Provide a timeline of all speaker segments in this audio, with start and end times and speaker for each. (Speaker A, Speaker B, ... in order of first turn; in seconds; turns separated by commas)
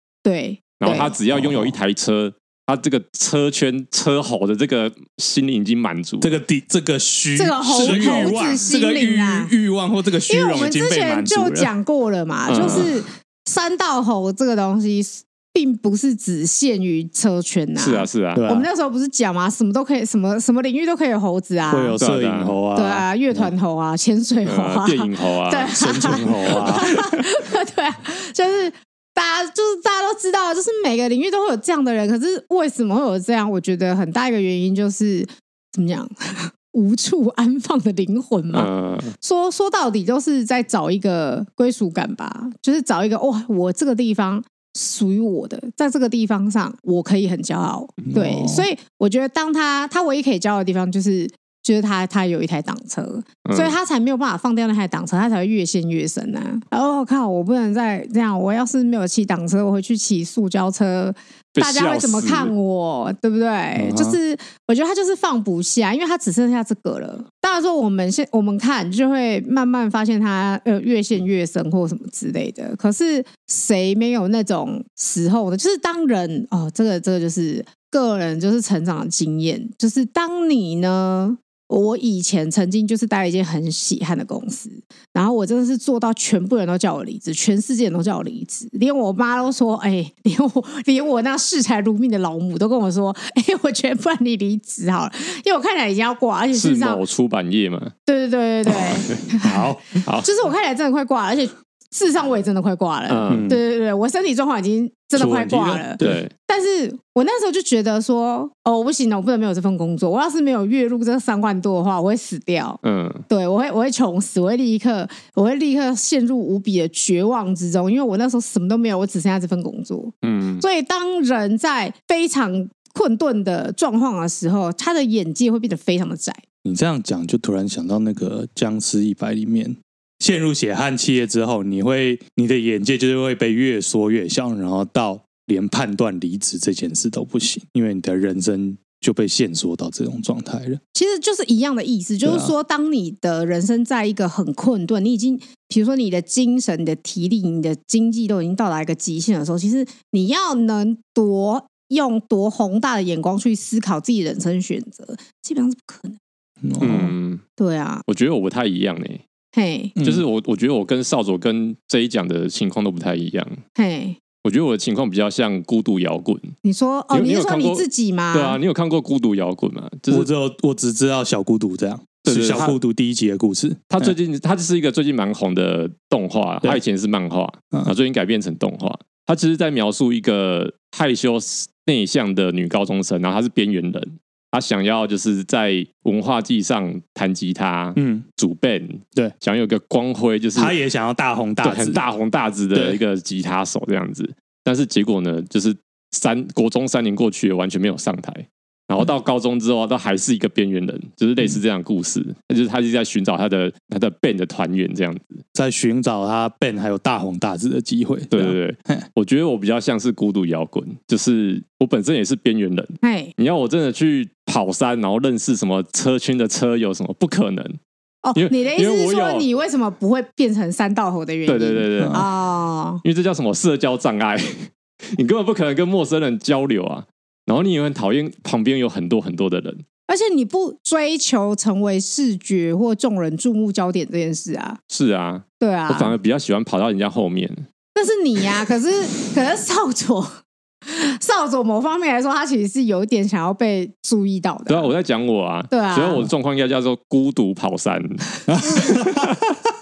Speaker A: 0.2-1.2, Speaker B: 0.8-6.4, Speaker C: 1.3-1.7, Speaker C: 6.2-11.7, Speaker A: 7.3-9.5, Speaker B: 7.8-8.4, Speaker A: 10.3-22.0, Speaker B: 12.5-12.9, Speaker B: 17.8-18.4, Speaker C: 18.3-18.7, Speaker C: 21.7-23.5, Speaker B: 22.0-22.6, Speaker A: 22.7-38.7, Speaker B: 24.4-27.2, Speaker C: 25.8-26.9, Speaker B: 38.5-39.1, Speaker A: 39.2-97.0, Speaker C: 48.0-48.7, Speaker B: 53.4-53.8, Speaker B: 61.5-62.5, Speaker C: 63.8-64.2, Speaker B: 96.5-97.9, Speaker A: 98.1-99.7, Speaker C: 99.4-100.0, Speaker B: 100.0-100.3, Speaker A: 100.2-126.4, Speaker B: 103.1-103.5, Speaker C: 103.3-103.6, Speaker C: 105.1-106.2, Speaker B: 106.0-106.3, Speaker B: 112.8-113.2, Speaker B: 120.2-120.6, Speaker C: 126.6-140.8, Speaker A: 140.9-156.2, Speaker C: 142.2-142.5, Speaker C: 156.6-157.1, Speaker B: 156.8-157.4, Speaker A: 157.6-158.0, Speaker B: 158.1-159.2, Speaker A: 159.5-159.9, Speaker C: 159.9-160.2, Speaker B: 160.0-163.6, Speaker A: 163.8-164.2, Speaker B: 164.4-166.5, Speaker A: 166.6-168.6, Speaker B: 167.1-170.3, Speaker C: 170.1-174.1, Speaker B: 172.2-172.8, Speaker B: 173.9-190.8, Speaker C: 187.9-188.2, Speaker C: 190.5-192.0, Speaker B: 191.6-205.4, Speaker C: 192.7-193.0, Speaker C: 205.5-209.1, Speaker B: 208.3-217.8, Speaker A: 213.0-213.3, Speaker A: 218.2-223.0, Speaker B: 218.3-219.4, Speaker B: 221.4-222.3, Speaker B: 223.0-229.8, Speaker A: 230.1-234.8, Speaker B: 234.9-237.7, Speaker A: 235.6-236.1, Speaker A: 237.9-240.3, Speaker A: 240.8-244.9, Speaker B: 244.7-249.4, Speaker A: 245.7-246.3, Speaker C: 248.5-249.5